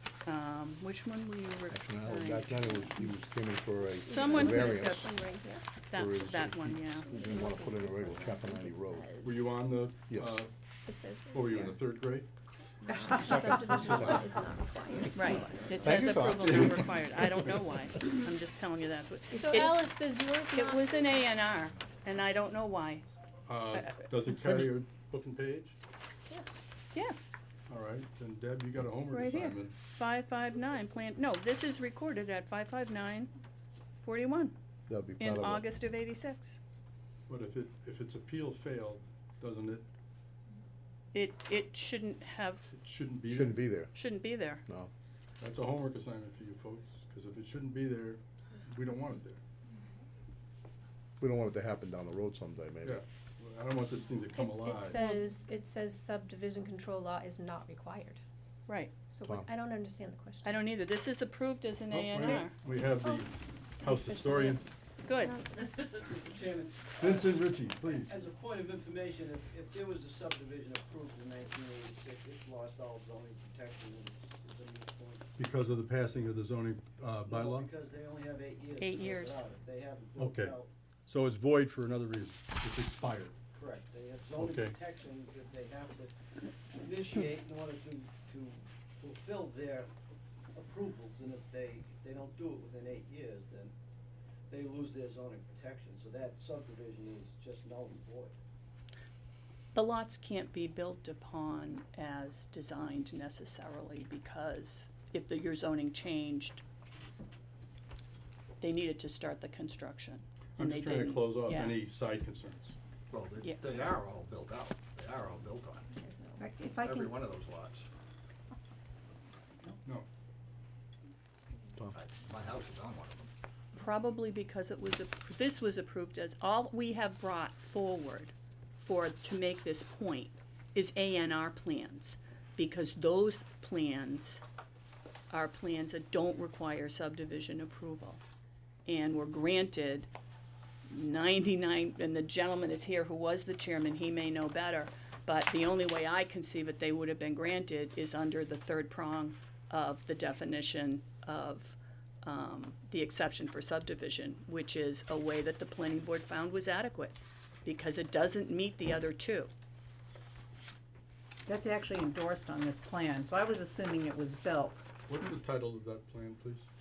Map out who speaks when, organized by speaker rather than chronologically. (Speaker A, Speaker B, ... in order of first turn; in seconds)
Speaker A: 0.2-2.9, 4.1-5.1, 5.9-7.1, 15.1-19.9, 20.5-23.1, 23.7-24.1, 29.1-33.3, 34.0-34.5, 35.2-36.6, 41.1-42.7, 43.9-44.6, 58.7-58.9, 60.4-62.5, 65.1-65.4, 78.8-79.4, 99.7-106.6, 108.6-111.8, 123.8-134.4, 135.3-138.2, 138.9-140.1, 140.9-159.5
Speaker B: 1.7-5.1, 5.9-9.1, 10.1-10.4, 13.2-14.3, 15.8-17.1, 34.9-35.6, 43.3-44.0, 51.2-53.0
Speaker C: 4.0-5.7, 7.1-9.6, 10.9-11.7, 12.8-15.8, 19.3-21.4, 54.3-58.2, 59.1-60.7, 64.1-64.6, 65.2-65.5
Speaker D: 9.2-10.5, 11.3-12.3, 13.4-14.1, 16.4-17.4, 23.5-25.8, 27.7-29.8, 37.3-39.9, 42.7-43.6, 45.4-49.4, 52.8-55.0, 61.9-64.6, 67.0-68.1, 75.4-77.7, 80.2-83.3, 84.4-84.8, 110.6-112.8, 165.1-166.7
Speaker E: 66.0-66.3, 67.0-68.0, 77.3-77.6, 78.9-79.5, 84.4-84.8, 87.2-87.8, 113.1-115.9, 116.8-117.9, 121.8-123.3
Speaker F: 66.3-67.2, 68.0-75.2, 77.6-80.7, 83.6-86.1, 86.8-89.9, 90.6-93.7, 94.5-98.4, 116.6-116.9
Speaker G: 161.5-164.9